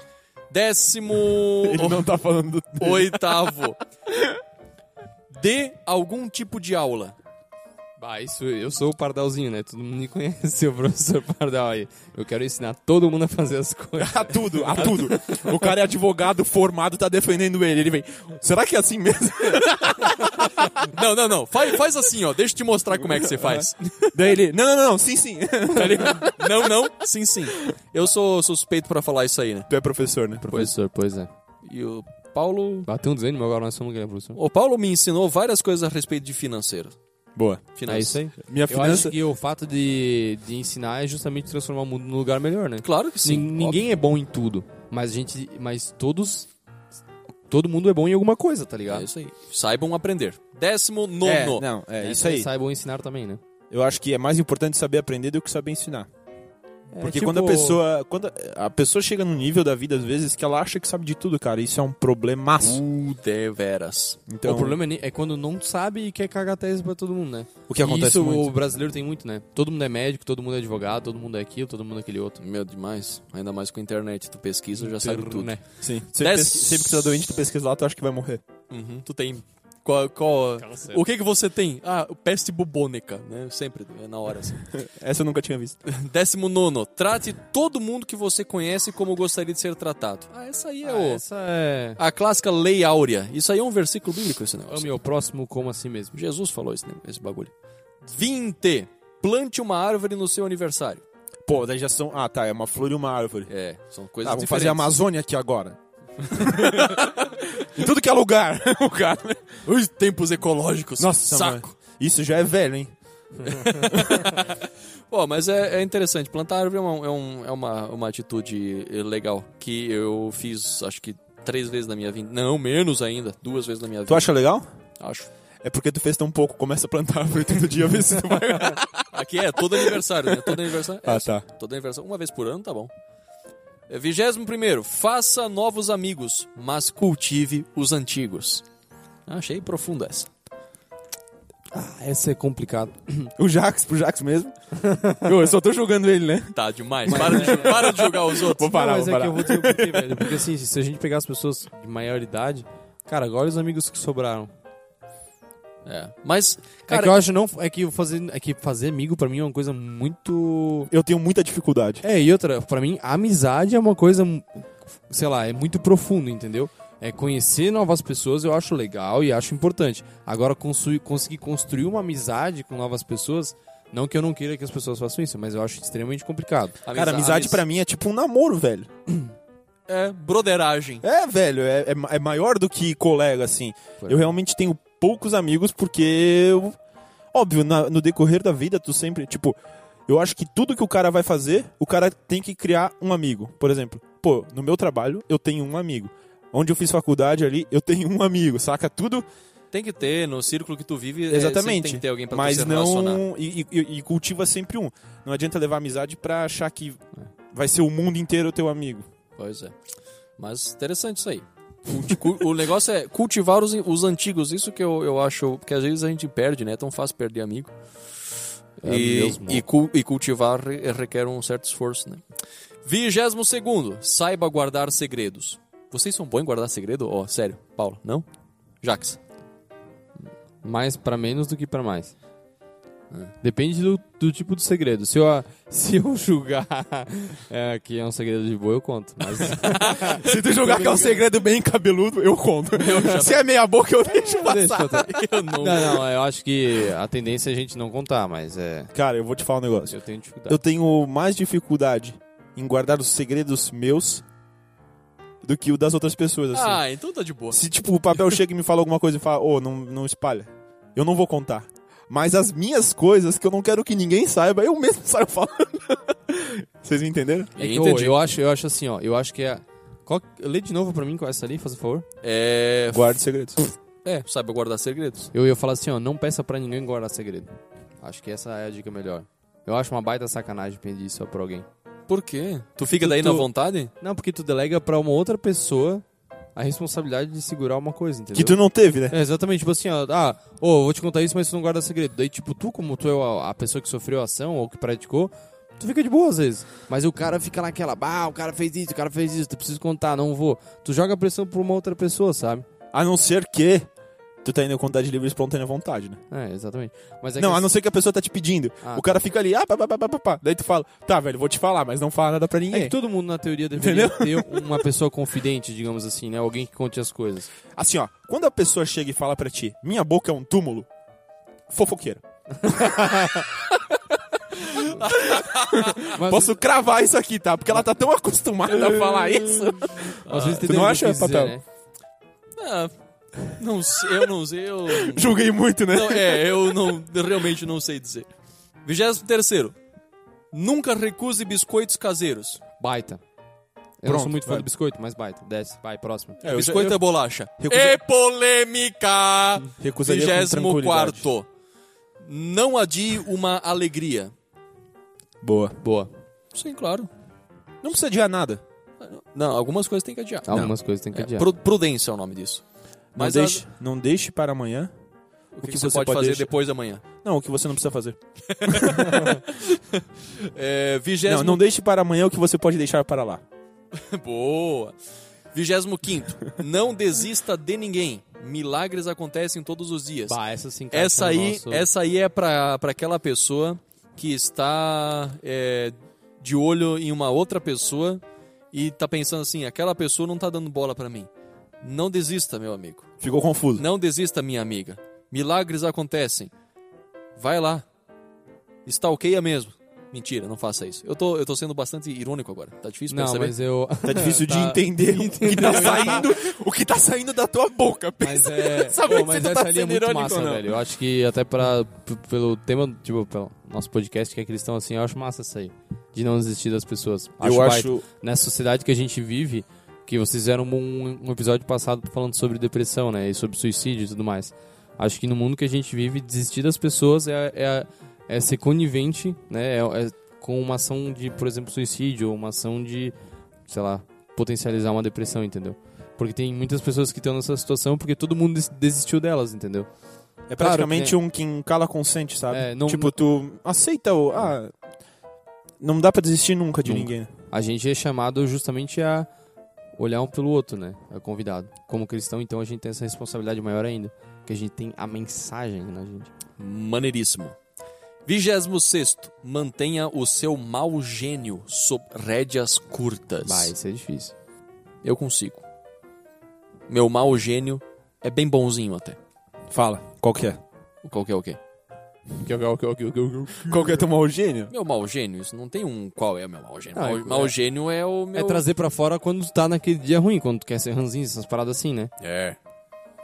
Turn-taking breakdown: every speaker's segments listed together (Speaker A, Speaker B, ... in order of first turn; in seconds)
Speaker A: 0.5-2.1, 2.8-3.8, 5.3-7.2, 19.9-24.3, 25.8-29.7, 31.6-32.9, 34.3-37.0, 37.7-38.2, 42.8-43.8, 48.9-51.6, 62.6-64.2, 72.4-75.6, 76.2-77.1, 78.7-84.6, 85.8-91.2, 92.0-94.9, 96.1-97.5, 98.0-101.0, 103.5-105.0, 106.5-107.2, 109.7-111.7, 113.4-114.6, 115.1-124.3, 125.0-125.3, 129.0-132.9, 133.9-138.6, 139.3-140.3, 146.5-148.7, 155.8-157.1, 176.8-177.6, 179.9-181.0, 199.7-203.2, 209.4-209.7, 210.4-217.7, 218.8-222.2, 222.8-228.2, 228.8-229.2, 239.6-240.1, 242.7-243.4, 244.7-246.1, 256.5-257.6, 267.6-268.1, 272.2-273.1, 274.0-275.3, 282.1-283.9, 324.9-326.1, 329.0-329.5, 330.2-330.8, 332.6-335.4, 335.9-338.3, 338.8-339.7, 340.5-342.6, 346.4-351.5, 352.2-354.3, 356.5-357.1, 359.0-362.6, 363.1-363.6, 365.5-367.0, 368.5-371.6, 373.9-374.9, 375.5-380.4, 380.9-388.2, 388.7-391.3, 391.8-393.1, 393.8-396.5, 397.4-397.9, 398.9-403.6, 405.6-406.1, 456.6-457.6, 458.2-463.7, 465.0-465.6, 466.9-469.2, 471.0-471.6, 474.7-478.6, 482.2-482.6
Speaker B: 1.6-3.5, 4.1-4.4, 14.0-20.7, 23.2-26.8, 29.7-30.5, 37.4-37.6, 38.5-39.1, 51.2-52.5, 53.7-56.1, 57.0-62.8, 64.3-64.8, 67.7-68.5, 75.8-78.4, 84.7-85.8, 101.5-103.5, 104.2-109.5, 111.0-112.9, 113.9-114.3, 124.1-124.7, 125.6-129.0, 130.3-131.4, 143.4-144.5, 145.1-150.4, 160.9-162.0, 176.9-178.9, 181.0-186.8, 187.3-199.2, 201.3-207.0, 207.5-209.1, 239.9-245.1, 248.9-249.9, 250.5-254.2, 255.4-256.8, 257.5-267.5, 272.9-273.6, 288.3-289.1, 302.9-303.9, 304.4-306.2, 307.4-312.9, 313.7-314.8, 317.7-320.9, 321.7-322.8, 324.5-331.5, 334.9-336.8, 344.0-344.7, 346.4-347.0, 347.6-348.0, 349.8-351.3, 355.4-355.8, 357.8-358.6, 363.1-364.9, 365.6-366.5, 367.2-369.4, 371.2-373.4, 393.2-393.8, 404.0-410.6, 417.4-418.0, 440.5-444.7, 445.8-447.3, 469.7-470.6, 473.6-474.7
Speaker C: 8.0-15.1, 30.4-31.3, 32.9-34.4, 37.9-46.5, 47.5-49.0, 52.0-53.4, 56.9-57.8, 64.4-72.4, 74.8-75.6, 80.6-81.0, 90.8-92.0, 94.7-96.2, 141.7-143.3, 144.8-145.2, 147.1-147.9, 148.6-154.5, 156.9-160.9, 162.0-176.8, 218.8-219.6, 230.6-232.1, 233.4-241.2, 244.2-248.9, 249.9-250.6, 267.6-272.1, 275.3-281.6, 283.0-283.5, 284.0-286.0, 286.6-288.6, 289.1-302.7, 306.3-307.7, 308.8-309.2, 312.7-317.5, 322.6-323.5, 326.1-326.6, 330.3-331.6, 342.8-343.2, 344.0-346.4, 355.8-356.1, 360.5-361.5, 380.3-381.9, 403.1-406.2, 408.2-433.1, 433.7-439.9, 440.6-441.2, 442.5-443.1, 446.8-449.3, 450.0-456.3, 463.4-464.3, 472.4-474.0, 476.9-477.5, 478.3-482.1